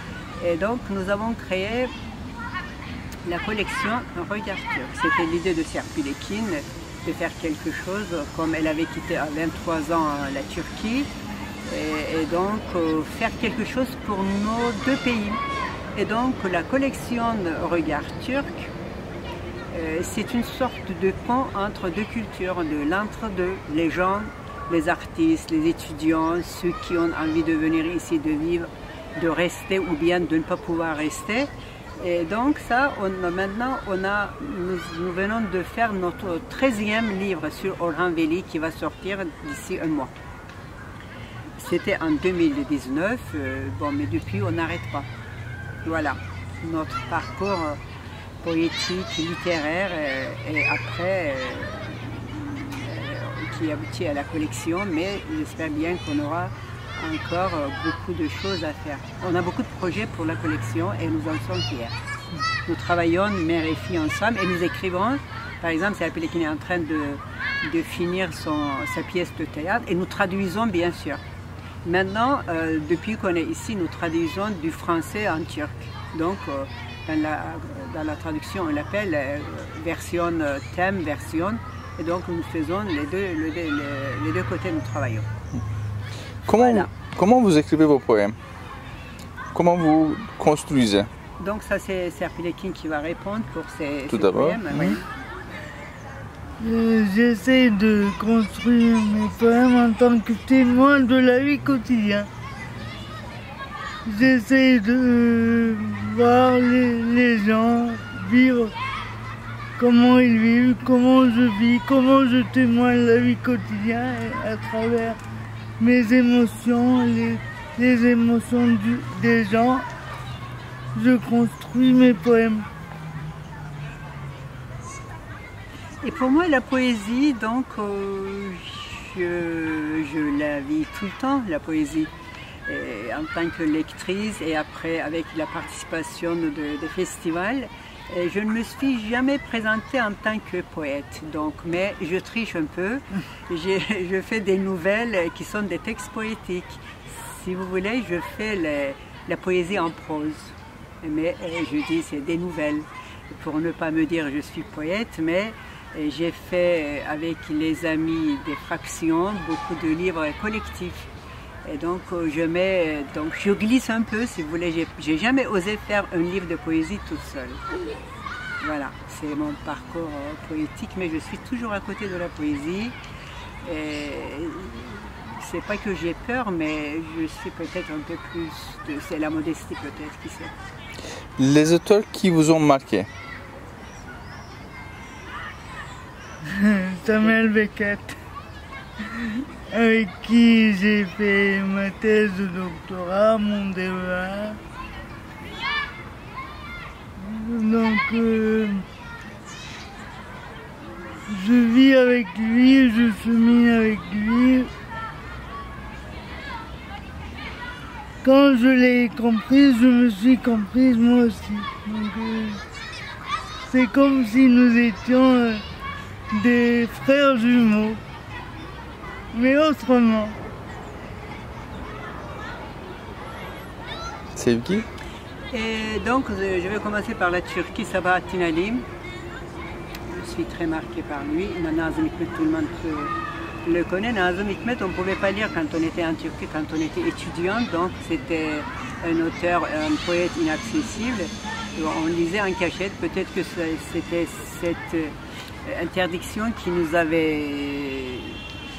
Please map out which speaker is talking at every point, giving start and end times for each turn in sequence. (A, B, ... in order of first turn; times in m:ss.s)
0:00.4-0:01.9 A
0:03.2-0:11.1 A
0:11.7-0:15.4 A
0:15.9-0:18.7 A
0:19.7-0:40.1 A
0:41.6-0:45.1 A
0:45.8-0:47.8 A
0:48.4-1:02.0 A
1:02.7-1:11.2 A
1:11.8-1:25.3 A
1:26.5-1:28.4 B
1:26.5-1:26.9 A
1:29.5-1:31.1 B
1:31.4-1:35.1 A
1:34.1-1:35.0 B
1:36.6-1:42.3 C
1:44.1-1:48.7 C
1:49.8-1:55.2 C
1:55.8-1:59.9 C
2:00.9-2:02.7 C
2:06.0-2:12.1 A
2:12.7-2:41.1 A
2:41.6-2:47.6 A
2:48.6-2:53.0 A
2:53.6-3:00.5 A
3:01.4-3:03.1 B
3:06.4-3:08.2 C
3:09.2-3:14.6 C
3:17.2-3:18.8 C
3:21.3-3:24.7 C
3:28.2-3:32.6 C
3:33.7-3:35.6 C
3:36.3-3:38.0 C
3:39.3-3:40.4 C
3:44.4-3:44.9 B
3:45.5-3:48.8 A
3:50.2-3:53.1 A
3:53.6-4:05.1 A
4:05.6-4:08.4 A